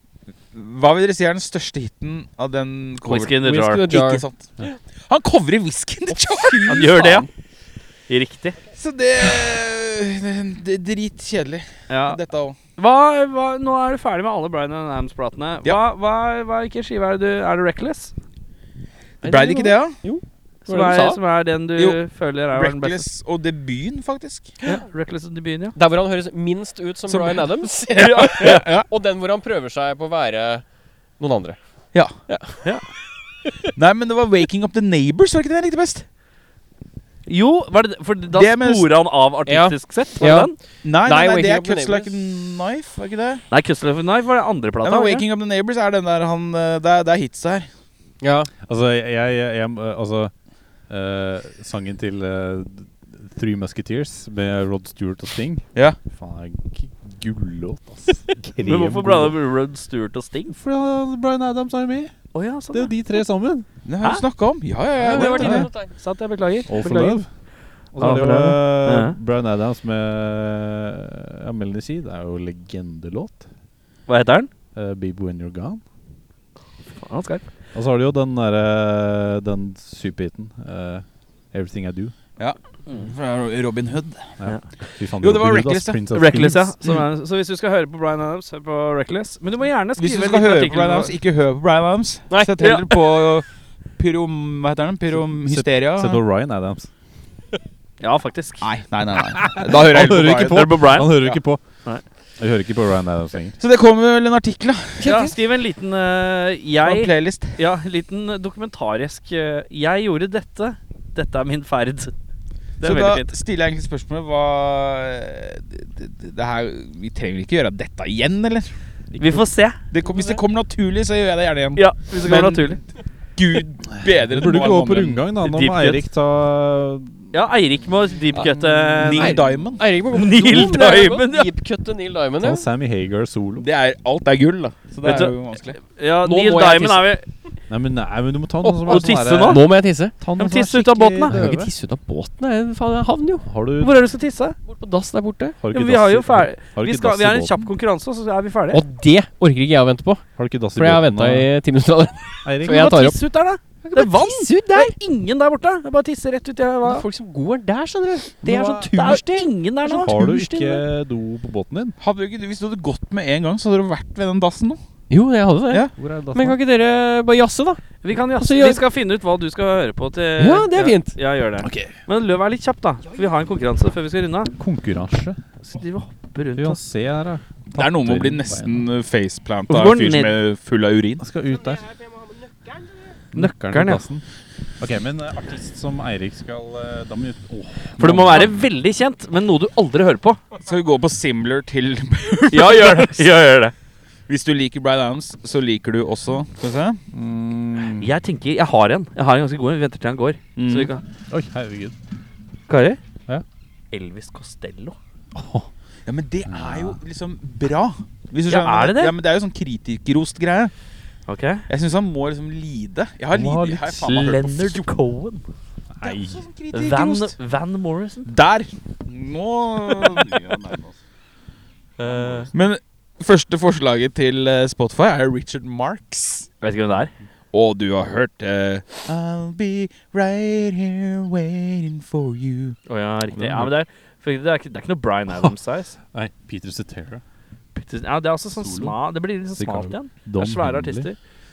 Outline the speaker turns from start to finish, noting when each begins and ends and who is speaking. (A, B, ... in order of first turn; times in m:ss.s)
0:00.5-0:07.3 A
0:03.0-0:03.9 B
0:03.4-0:04.7 C
0:06.7-0:07.3 B
0:08.1-0:08.6 B
0:08.7-0:12.6 A
0:11.9-0:12.2 B
0:12.8-0:18.1 B
0:19.2-0:20.0 A
0:19.2-0:21.2 C
0:20.7-0:23.0 B
0:22.5-0:24.6 A
0:24.6-0:25.7 B
0:25.7-0:30.6 C
0:27.1-0:28.9 A
0:27.9-0:28.6 B
0:31.2-0:31.6 C
0:32.3-0:32.6 C
0:33.8-0:36.0 A
0:37.2-0:40.6 B
0:38.3-0:38.8 A
0:39.5-0:40.5 C
0:40.8-0:43.4 A
0:41.0-0:42.1 C
0:43.5-0:45.2 B
0:44.8-0:47.7 A
0:48.2-0:48.5 C
0:48.6-0:50.3 D
0:50.9-0:59.4 D
0:58.6-1:00.6 B
1:00.5-1:02.1 D
1:02.3-1:02.9 B
1:02.7-1:03.6 D
1:03.8-1:05.7 A
1:05.0-1:05.9 C
1:05.0-1:07.2 B
1:05.4-1:05.7 D
1:06.7-1:07.3 D
1:07.9-1:13.4 D
1:08.0-1:09.2 B
1:14.1-1:14.5 B
1:14.7-1:15.8 D
1:17.0-1:17.4 B
1:17.7-1:22.1 D
1:22.4-1:24.3 A
1:24.4-1:26.7 D
1:25.2-1:26.0 A
1:26.1-1:31.2 B
1:30.0-1:33.4 A
1:32.6-1:32.9 B
1:34.0-1:36.2 A
1:35.3-1:36.9 D
1:38.0-1:38.7 B
1:38.6-1:40.7 A
1:39.2-1:41.6 D
1:40.3-1:41.3 B
1:42.4-1:43.6 D
1:43.6-1:45.1 A
1:45.0-1:45.3 C
1:45.0-1:52.1 B
1:46.8-1:47.6 A
1:52.8-1:53.3 B
1:52.8-2:02.8 A
1:59.2-1:59.8 B
2:01.8-2:02.8 B
2:03.4-2:05.2 A
2:04.0-2:07.3 D
2:05.4-2:06.0 B
2:07.3-2:09.4 B
2:08.3-2:09.3 D
2:09.0-2:09.8 A
2:09.1-2:12.6 C
2:10.1-2:11.5 B
2:12.4-2:13.6 D
2:13.6-2:15.8 A
2:15.0-2:17.2 B
2:16.2-2:17.1 C
2:17.7-2:21.7 D
2:18.6-2:18.9 C
2:18.8-2:19.6 B
2:19.4-2:20.1 C
2:20.4-2:21.3 B
2:21.2-2:23.4 C
2:23.4-2:23.9 D
2:23.8-2:24.6 B
2:24.7-2:25.6 C
2:25.6-2:27.7 D
2:25.7-2:28.8 B
2:28.7-2:30.2 C
2:30.4-2:31.5 D
2:30.8-2:33.2 C
2:32.4-2:33.0 D
2:32.6-2:37.0 B
2:33.8-2:34.9 C
2:36.8-2:40.8 C
2:38.4-2:39.2 D
2:38.9-2:40.4 B
2:40.0-2:42.0 D
2:42.0-2:44.8 A
2:45.1-2:48.8 C
2:46.0-2:46.6 D
2:48.0-2:54.5 B
2:50.4-2:51.2 C
2:51.6-2:51.9 D
2:54.6-2:55.4 D
2:55.6-2:56.8 B
2:56.5-2:58.9 D
2:57.7-3:01.2 A
2:59.7-3:00.4 B
3:01.2-3:01.8 D
3:01.7-3:03.0 C
3:03.3-3:04.2 D
3:03.3-3:04.0 B
3:04.8-3:08.5 D
3:08.0-3:10.4 B
3:10.5-3:13.3 A
3:12.5-3:13.7 B
3:14.3-3:17.0 A
3:17.1-3:18.1 D
3:18.0-3:21.0 B
3:20.6-3:20.9 A
3:21.3-3:21.9 D
3:22.7-3:23.0 B
3:23.9-3:25.0 B
3:25.3-3:25.7 D
3:26.0-3:30.7 A
3:26.5-3:27.0 D
3:28.5-3:29.1 B
3:31.3-3:31.6 B
3:31.7-3:34.8 A
3:33.3-3:34.0 D
3:34.0-3:35.4 B
3:35.9-3:36.4 D
3:36.0-3:37.3 A
3:36.7-3:38.3 B
3:38.2-3:40.5 A
3:40.2-3:40.9 D
3:42.0-3:42.5 B
3:42.1-3:42.4 D
3:42.5-3:46.5 A
3:46.6-3:47.1 B
3:47.5-3:52.8 A
3:52.9-3:55.9 B
3:53.3-3:53.7 D
3:55.3-3:55.5 D
3:56.1-3:57.2 D
3:57.7-4:01.2 B
3:58.5-3:59.0 D
3:59.6-4:01.1 D